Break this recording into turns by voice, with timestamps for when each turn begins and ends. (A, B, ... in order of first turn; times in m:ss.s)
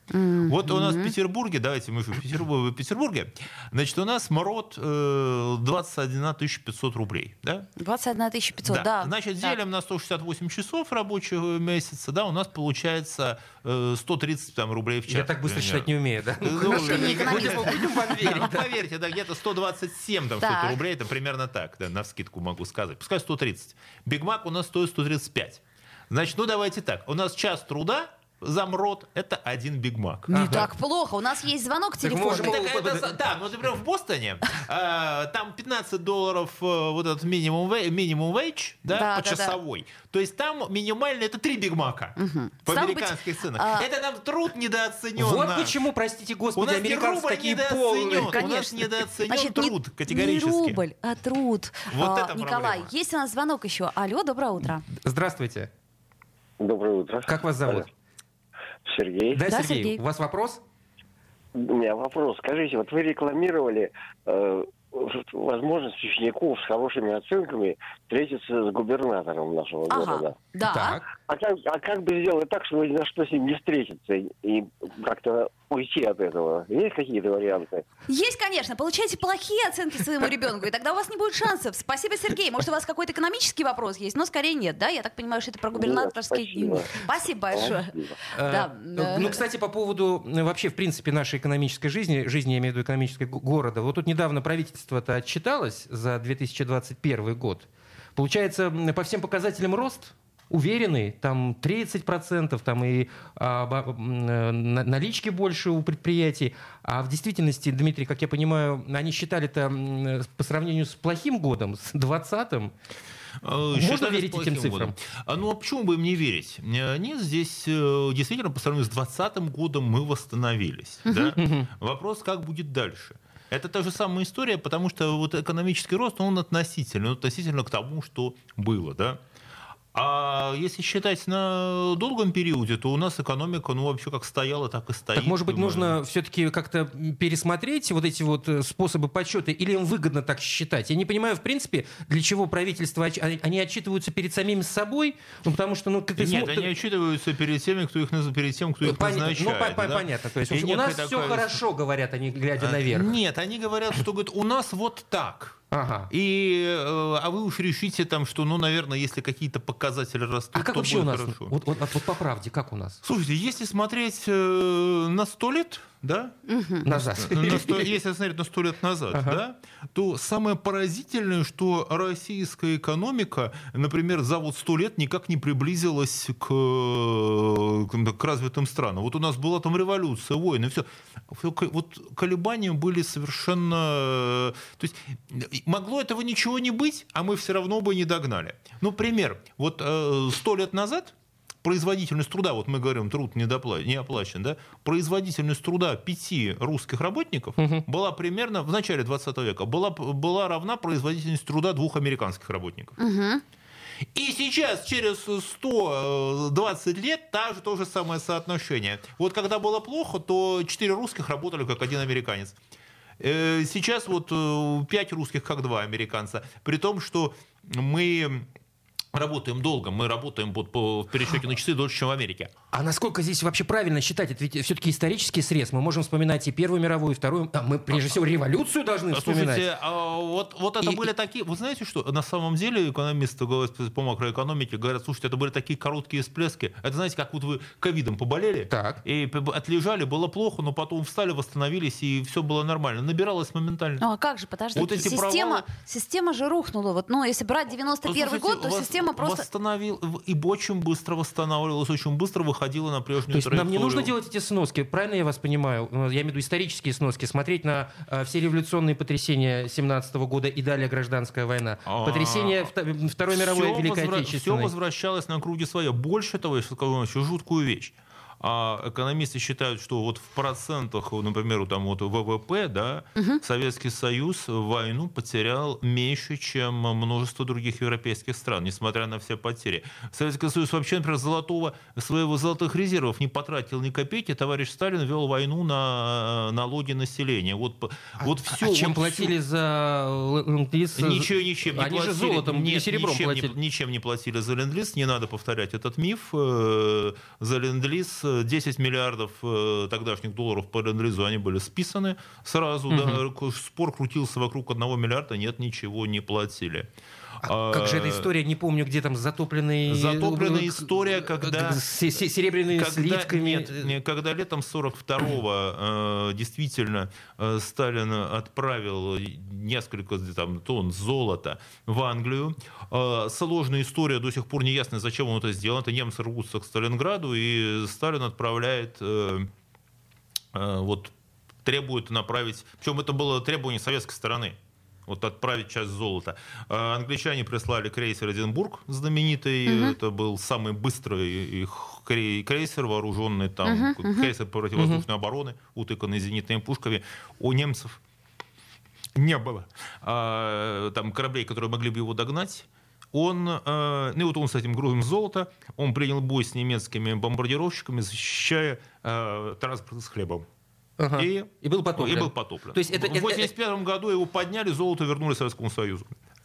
0:00.1-0:01.1 A
0:00.5-0:07.7 B
0:07.8-0:09.6 A
0:08.6-0:30.7 B
0:15.1-0:18.7 C
0:16.6-0:17.9 A
0:20.4-0:20.8 A
0:30.3-0:32.6 A
0:30.3-0:30.7 C
0:32.0-0:33.1 C
0:32.3-0:45.8 B
0:38.9-0:39.6 A
0:42.2-0:43.9 A
0:45.2-0:48.4 C
0:46.6-0:50.8 B
0:48.2-0:54.8 A
0:51.9-0:52.9 B
0:54.9-0:55.7 C
0:56.6-0:57.9 D
0:57.3-0:57.9 C
0:58.9-0:59.4 D
0:59.3-1:00.6 C
0:59.5-1:00.0 A
1:01.6-1:10.4 D
1:09.9-1:11.0 A
1:10.7-1:11.1 C
1:11.3-1:17.8 D
1:18.1-1:29.4 A
1:25.7-1:27.0 D
1:27.5-1:28.2 D
1:28.3-1:52.7 C
1:53.4-2:09.2 B
1:53.7-1:55.0 C
2:01.1-2:01.3 A
2:01.4-2:01.7 C
2:09.9-2:16.0 B
2:15.2-2:26.7 C
2:26.2-2:31.6 B
2:28.8-2:33.2 C
2:32.6-2:41.6 B
2:35.7-2:36.1 C
2:40.5-2:43.0 C
2:43.0-3:23.0 B
2:46.5-2:46.8 A
2:46.8-2:47.9 C
2:49.1-2:49.4 C
3:17.6-3:17.8 C
3:23.0-3:23.4 A
3:24.2-3:32.6 B
3:33.2-3:38.5 B
3:39.1-3:42.5 B
3:42.7-3:49.6 C
3:49.1-4:04.0 B
3:58.7-3:59.0 C
4:04.0-4:09.4 A
4:04.7-4:05.6 B
4:08.0-4:14.1 B
4:13.3-4:24.7 C
4:21.9-4:22.7 B
4:23.3-4:49.4 B
4:48.2-4:53.6 C
4:51.0-5:06.9 B
5:02.9-5:03.2 C
5:07.4-5:13.9 C
5:07.4-5:08.3 B
5:09.9-5:12.2 B
5:12.7-5:29.5 B
5:30.5-5:31.1 B
5:31.6-5:48.0 B
5:39.7-5:40.0 A
5:43.6-5:44.3 A
5:44.8-5:45.0 C
5:49.2-6:00.5 B
6:01.0-6:03.5 C
6:01.2-6:06.2 B